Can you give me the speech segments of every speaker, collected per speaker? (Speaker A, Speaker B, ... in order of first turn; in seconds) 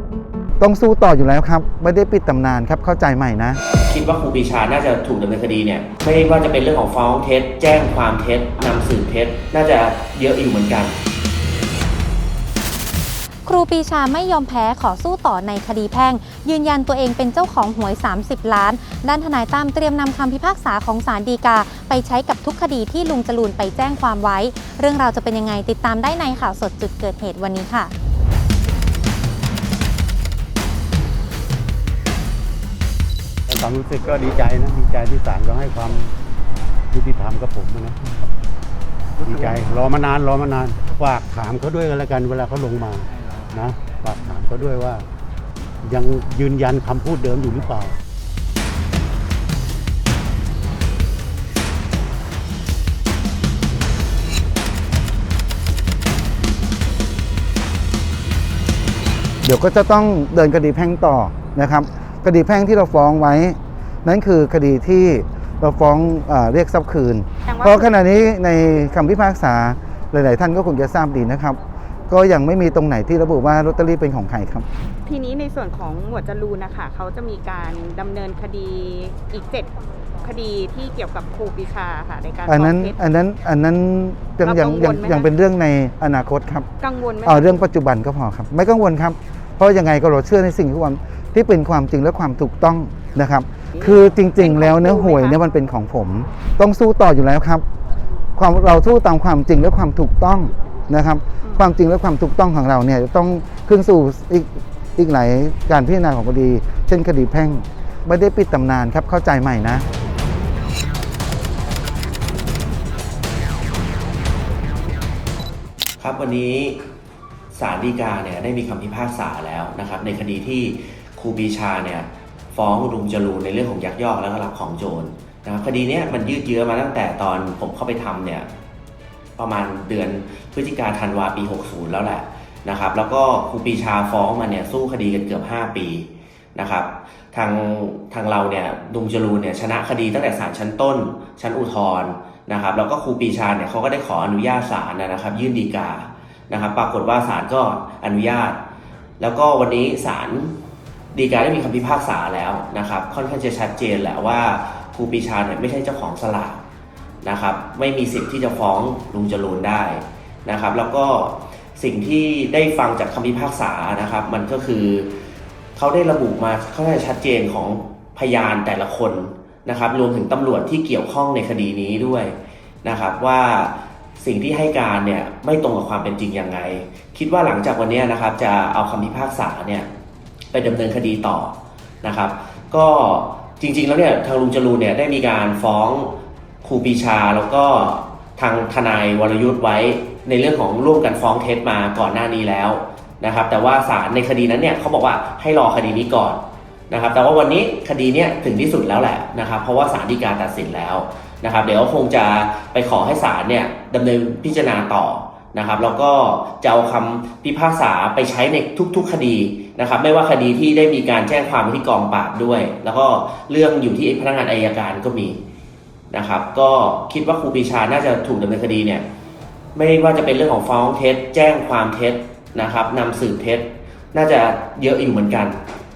Speaker A: 0.6-3.6, 59.4-74.7, 82.5-86.7, 87.2-97.6, 98.3-109.8
Speaker B: 3.8-11.0, 116.0-116.8, 117.5-128.5, 129.4-148.6, 149.2-150.5, 151.1-156.6, 157.2-165.1, 165.8-179.9, 180.5-215.4, 216.1-219.1, 219.7-225.6
Speaker C: 13.4-27.9
Speaker D: 33.5-36.1, 36.9-38.3, 39.2-45.0, 45.8-48.0
Speaker E: 67.5-67.9, 75.0-83.0, 84.4-85.3, 86.8-87.6, 93.8-95.4